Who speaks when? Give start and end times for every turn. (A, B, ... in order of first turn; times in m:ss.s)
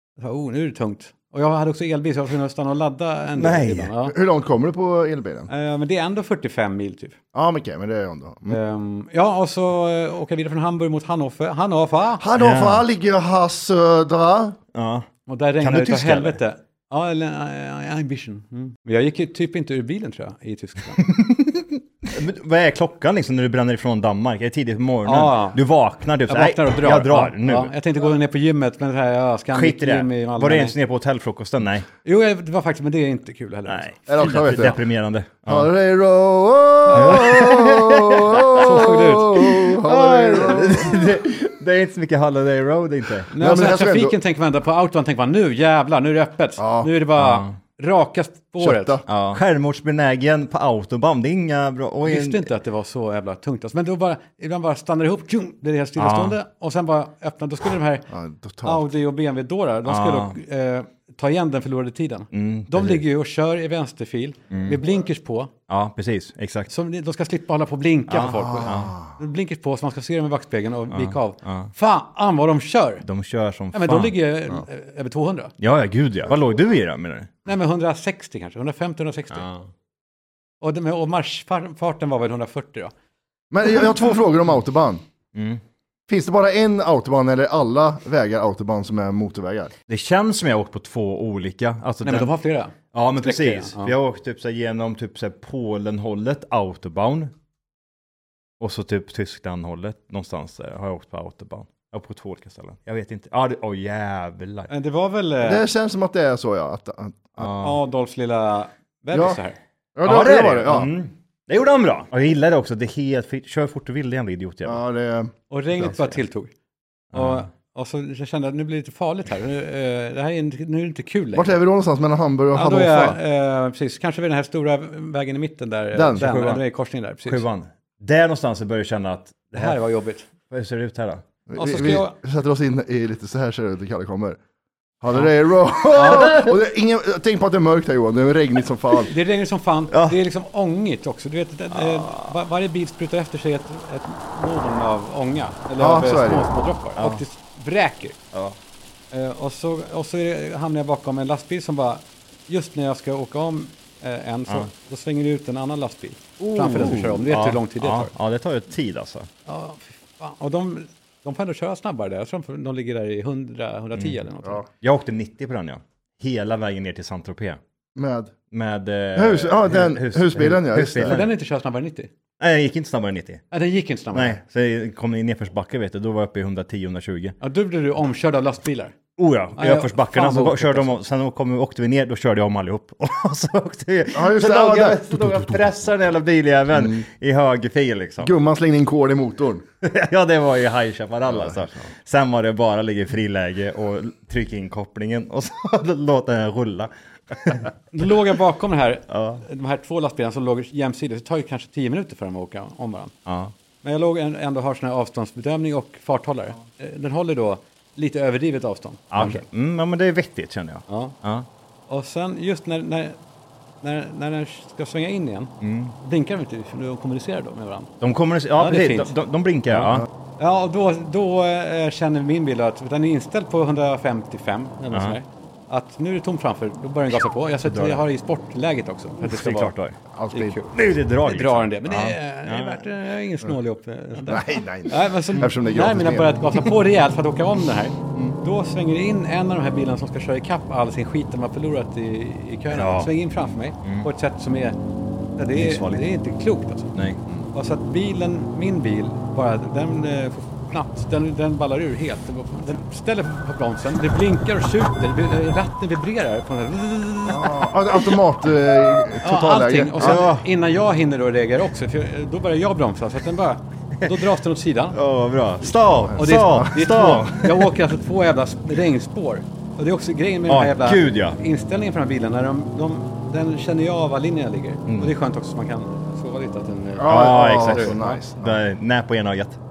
0:00.2-0:04.2 A
0:03.4-0:03.9 B
0:04.1-0:05.5 C
0:05.5-0:07.2 A
0:07.3-0:08.6 C
0:08.5-0:12.2 A
0:12.2-0:14.6 C
0:12.4-0:12.8 B
0:14.7-0:15.1 B
0:15.3-0:21.0 A
0:15.6-0:16.4 B
0:21.0-0:27.7 B
0:25.0-0:25.6 A
0:26.3-0:30.8 A
0:29.5-0:31.9 B
0:32.0-0:34.7 A
0:33.7-0:35.7 B
0:34.1-0:34.8 C
0:35.5-0:41.1 C
0:36.9-0:37.3 A
0:36.9-0:38.9 B
0:38.5-0:39.5 A
0:39.4-0:43.3 B
0:43.3-0:49.0 A
0:43.4-0:44.2 C
0:46.6-0:46.9 C
0:47.2-0:47.5 B
0:48.6-0:49.0 C
0:49.1-0:52.5 B
0:52.0-0:58.1 A
0:56.0-0:56.4 B
0:58.1-0:58.9 C
0:58.6-1:05.5 A
0:59.9-1:00.4 B
1:02.3-1:03.0 B
1:04.5-1:04.8 B
1:05.7-1:06.7 B
1:06.7-1:13.0 A
1:08.1-1:08.9 B
1:08.3-1:09.1 C
1:10.9-1:11.7 B
1:13.0-1:14.2 B
1:13.7-1:15.5 A
1:15.6-1:17.3 B
1:17.4-1:19.5 A
1:19.3-1:19.7 B
1:20.6-1:22.9 A
1:23.5-1:25.0 C
1:25.3-1:25.6 B
1:26.1-1:29.7 C
1:29.9-1:32.3 B
1:32.0-1:33.9 A
1:32.9-1:37.3 B
1:38.6-1:44.7 B
1:44.7-1:45.6 A
1:45.4-1:47.5 C
1:47.4-1:47.8 B
1:47.6-1:49.6 A
1:49.1-1:49.4 C
1:50.0-1:50.9 C
1:50.0-1:54.8 B
1:54.6-1:56.0 C
1:55.5-1:56.5 A
1:57.1-1:57.5 B
1:57.1-2:01.6 A
2:01.4-2:03.2 C
2:02.5-2:07.4 A
2:05.9-2:06.3 C
2:06.2-2:06.6 B
2:07.3-2:09.8 B
2:09.5-2:10.3 A
2:10.5-2:11.2 B
2:11.5-2:14.4 C
2:11.6-2:12.1 A
2:15.0-2:19.1 C
2:15.9-2:16.4 A
2:16.0-2:16.5 B
2:19.1-2:28.2 A
2:19.9-2:20.2 B
2:21.8-2:22.3 B
2:25.8-2:26.5 C
2:27.0-2:27.2 B
2:29.1-2:38.1 A
2:36.4-2:39.3 B
2:39.5-2:44.6 A
2:44.7-2:47.6 B
2:48.0-2:48.3 C
2:48.5-2:51.3 B
2:49.2-2:51.2 C
2:51.0-2:52.1 A
2:52.4-2:53.4 B
2:53.5-2:54.4 A
2:54.1-2:57.4 B
2:57.4-2:59.0 A
2:59.2-3:08.3 B
2:59.6-3:01.0 A
3:04.1-3:05.6 C
3:06.7-3:07.0 C
3:08.2-3:09.6 C
3:09.8-3:17.7 B
3:11.3-3:11.6 C
3:17.9-3:23.1 A
3:19.1-3:19.4 B
3:23.3-3:23.5 B
3:23.8-3:29.4 A
3:29.1-3:31.5 B
3:30.9-3:31.2 A
3:31.9-3:33.2 A
3:33.8-3:37.9 A
3:35.6-3:36.0 B
3:38.0-3:40.1 B
3:38.6-3:39.1 A
3:40.4-3:49.7 A
3:44.9-3:45.2 B
3:47.6-3:48.0 B
3:49.2-3:50.0 B
3:50.1-3:50.6 C
3:50.3-4:04.8 A
3:50.7-3:52.9 B
3:54.3-3:56.4 C
4:02.7-4:03.1 B
4:03.8-4:04.1 B
4:05.4-4:06.9 A
4:05.5-4:06.1 B
4:07.0-4:07.2 B
4:07.5-4:18.1 A
4:17.3-4:20.2 C
4:19.2-4:25.0 A
4:20.0-4:20.5 B
4:24.9-4:27.8 B
4:26.1-4:26.7 C
4:26.2-4:38.2 A
4:30.5-4:31.4 B
4:34.9-4:35.1 B
4:37.0-4:38.6 C
4:37.0-4:39.6 B